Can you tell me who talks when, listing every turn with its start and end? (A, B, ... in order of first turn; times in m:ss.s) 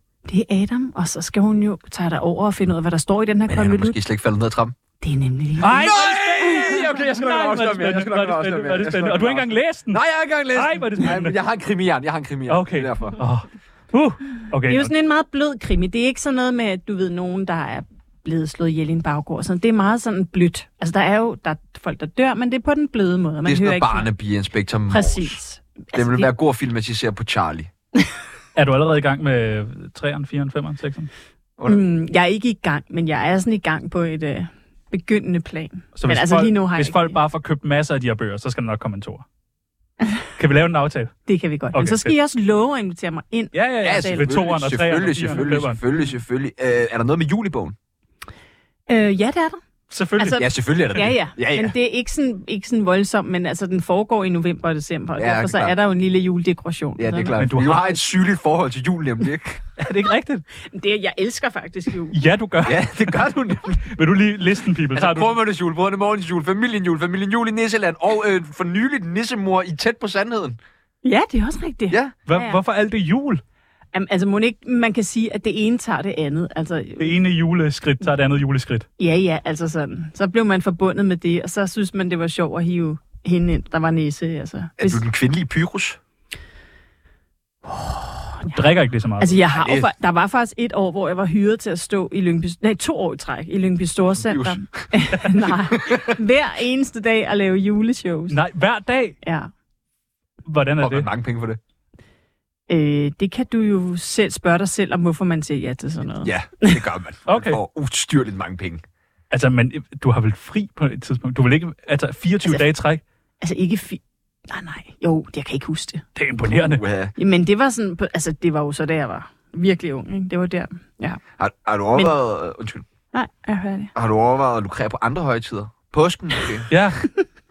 0:00.2-0:04.0 A
0:03.5-0:04.8 B
0:05.0-0:05.9 A
0:05.6-0:11.4 C
0:05.6-0:13.2 B
0:12.5-0:14.9 C
0:14.7-0:24.1 A
0:23.4-0:25.4 B
0:24.9-0:26.3 A
0:25.9-0:27.7 B
0:28.5-0:31.1 C
0:31.7-0:37.2 A
0:36.0-0:39.2 C
0:40.4-0:41.1 C
0:41.3-0:44.4 A
0:41.7-0:42.1 C
0:43.5-0:45.8 C
0:43.8-0:47.8 B
0:48.9-0:49.6 A
0:49.9-0:50.4 C
0:50.2-0:57.4 A
0:50.3-0:51.7 B
0:55.2-0:55.7 B
0:57.0-0:59.6 B
0:57.4-0:58.0 C
0:59.8-1:00.4 C
1:00.6-1:02.2 A
1:02.1-1:03.3 C
1:02.6-1:03.8 B
1:03.8-1:05.3 C
1:04.9-1:10.6 B
1:11.0-1:12.6 A
1:11.9-1:12.1 B
1:12.3-1:13.4 C
1:13.9-1:17.1 A
1:17.0-1:18.8 C
1:19.0-1:25.0 A
1:24.8-1:26.0 B
1:27.6-1:28.6 A
1:28.5-1:29.4 C
1:29.2-1:38.4 A
1:29.5-1:29.9 B
1:34.2-1:34.9 B
1:35.7-1:36.2 B
1:38.3-1:39.2 C
1:39.2-1:39.5 A
1:40.4-1:41.1 C
1:40.8-1:41.6 B
1:42.7-1:46.8 A
1:46.2-1:48.8 B
1:47.3-1:47.6 C
1:49.3-1:53.0 C
1:53.4-1:56.0 A
1:56.2-1:56.8 C
1:56.5-1:57.1 B
1:57.2-2:01.2 A
2:01.4-2:02.8 B
2:03.1-2:03.9 A
2:03.9-2:06.7 B
2:06.7-2:07.1 C